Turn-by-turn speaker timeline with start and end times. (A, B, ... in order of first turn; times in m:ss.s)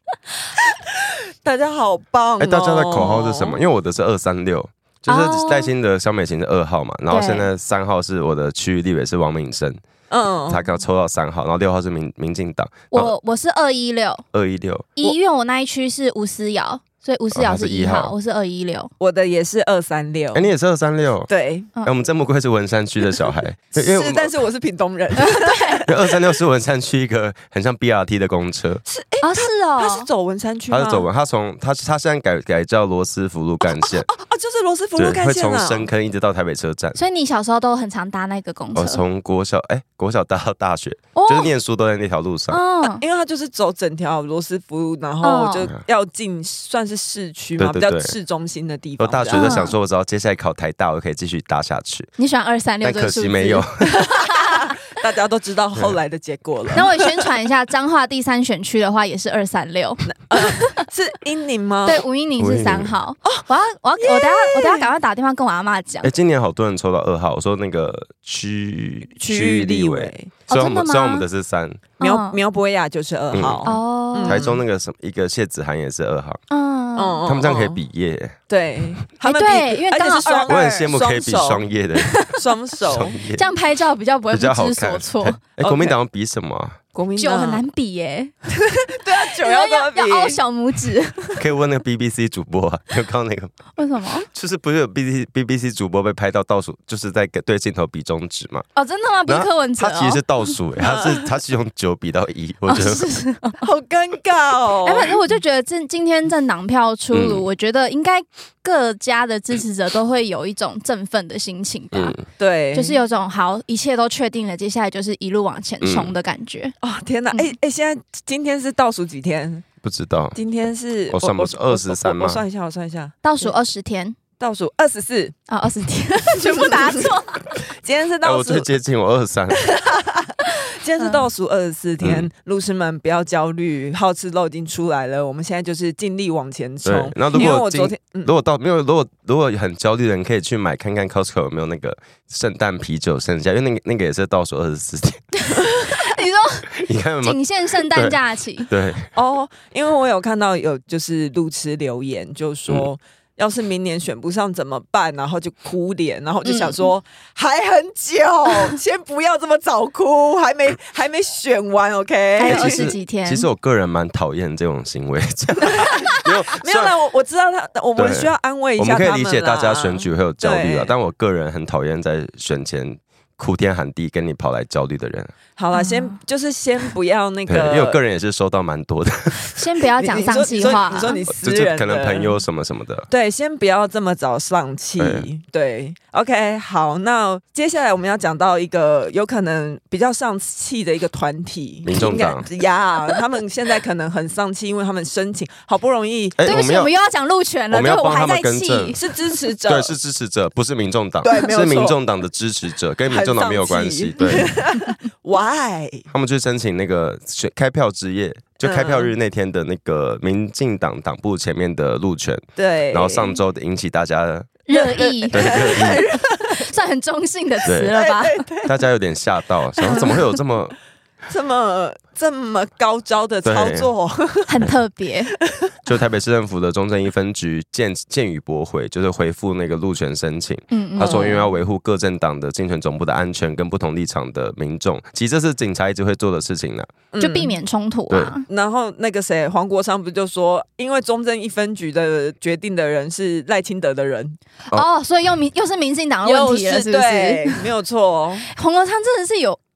0:00.7-0:03.6 A
0:02.4-0:09.8 B
0:05.1-0:05.7 C
0:07.1-0:07.5 C
0:10.1-0:10.6 A
0:10.5-0:13.1 B
0:12.9-0:14.2 C
0:14.3-0:15.1 B
0:15.0-0:18.9 C
0:17.3-0:18.1 B
0:19.0-0:20.5 A
0:20.3-0:21.3 B
0:21.3-0:21.7 A
0:21.8-0:24.3 B
0:23.7-0:26.2 A
0:25.2-0:25.8 C
0:25.8-0:28.8 B
0:28.9-0:31.1 A
0:29.2-0:30.1 C
0:30.7-0:34.1 B
0:33.7-0:35.9 A
0:35.0-0:37.0 B
0:36.9-0:39.0 C
0:38.7-0:42.6 B
0:41.1-0:41.5 C
0:42.5-0:43.0 C
0:43.0-0:49.6 A
0:45.2-0:45.7 C
0:47.6-0:48.2 B
0:49.0-0:52.1 B
0:49.3-0:49.7 C
0:52.2-0:54.8 C
0:52.8-0:54.0 B
0:53.9-0:57.3 A
0:56.7-1:00.8 C
1:00.1-1:02.0 A
1:01.8-1:06.1 C
1:02.4-1:02.9 B
1:04.0-1:04.9 A
1:06.0-1:11.8 B
1:09.2-1:10.3 A
1:10.5-1:11.2 C
1:12.0-1:12.4 C
1:12.0-1:14.6 A
1:13.3-1:13.7 B
1:13.6-1:14.5 C
1:14.2-1:16.4 B
1:16.5-1:17.2 C
1:17.0-1:17.8 A
1:17.2-1:18.4 B
1:18.5-1:21.6 A
1:19.2-1:20.9 C
1:20.5-1:22.2 B
1:22.0-1:22.4 C
1:22.3-1:23.2 A
1:22.8-1:23.5 B
1:23.3-1:25.4 C
1:24.3-1:26.8 B
1:25.6-1:26.0 A
1:26.9-1:27.6 A
1:27.2-1:28.3 C
1:28.5-1:30.4 A
1:29.1-1:31.4 C
1:31.4-1:33.5 B
1:33.8-1:34.2 C
1:34.2-1:38.7 B
1:38.8-1:40.5 C
1:39.2-1:43.0 B
1:40.8-1:41.2 A
1:42.7-1:43.6 C
1:43.6-1:45.2 A
1:44.8-1:52.2 C
1:47.1-1:47.5 B
1:51.9-1:52.2 B
1:52.4-1:53.0 A
1:52.7-1:56.7 C
1:55.8-1:56.1 B
1:56.8-1:59.7 A
1:59.8-2:00.4 B
2:00.3-2:03.5 A
2:01.1-2:02.4 B
2:03.2-2:04.2 C
2:04.4-2:05.4 A
2:05.5-2:07.6 C
2:06.4-2:08.7 A
2:08.2-2:09.7 B
2:09.6-2:18.3 A
2:12.0-2:12.3 B
2:16.8-2:25.3 B
2:25.4-2:28.7 C
2:26.8-2:29.1 B
2:29.1-2:42.8 A
2:36.4-2:36.8 C
2:42.4-2:43.5 C
2:42.4-2:47.0 B
2:46.1-2:50.9 A
2:48.0-2:55.3 B
2:55.6-2:58.0 A
2:55.7-2:56.2 C
2:57.5-2:59.6 B
2:59.5-3:01.2 C
3:00.0-3:02.4 A
3:01.2-3:03.1 B
3:03.1-3:16.6 A
3:05.0-3:05.3 B
3:11.8-3:12.5 B
3:16.4-3:16.9 B
3:16.4-3:19.0 C
3:17.7-3:19.0 B
3:19.0-3:19.9 A
3:19.6-3:24.6 B
3:21.2-3:22.0 A
3:23.0-3:26.1 A
3:26.1-3:34.6 B
3:28.6-3:29.1 A
3:32.6-3:33.4 A
3:34.7-3:38.5 C
3:34.7-3:36.6 A
3:35.3-3:36.0 B
3:37.7-3:37.9 B
3:37.8-3:38.8 A
3:38.6-3:40.7 B
3:39.8-3:40.3 A
3:39.8-3:40.1 C
3:41.3-3:44.7 A
3:43.4-3:43.9 B
3:44.5-3:45.3 C
3:45.4-3:45.7 A
3:45.8-3:56.9 B
3:50.7-3:51.4 C
3:51.0-3:51.5 A
3:57.1-3:57.6 A
3:57.2-3:58.4 C
3:58.5-4:04.4 A
4:04.7-4:07.7 C
4:06.2-4:08.5 A
4:08.5-4:09.6 C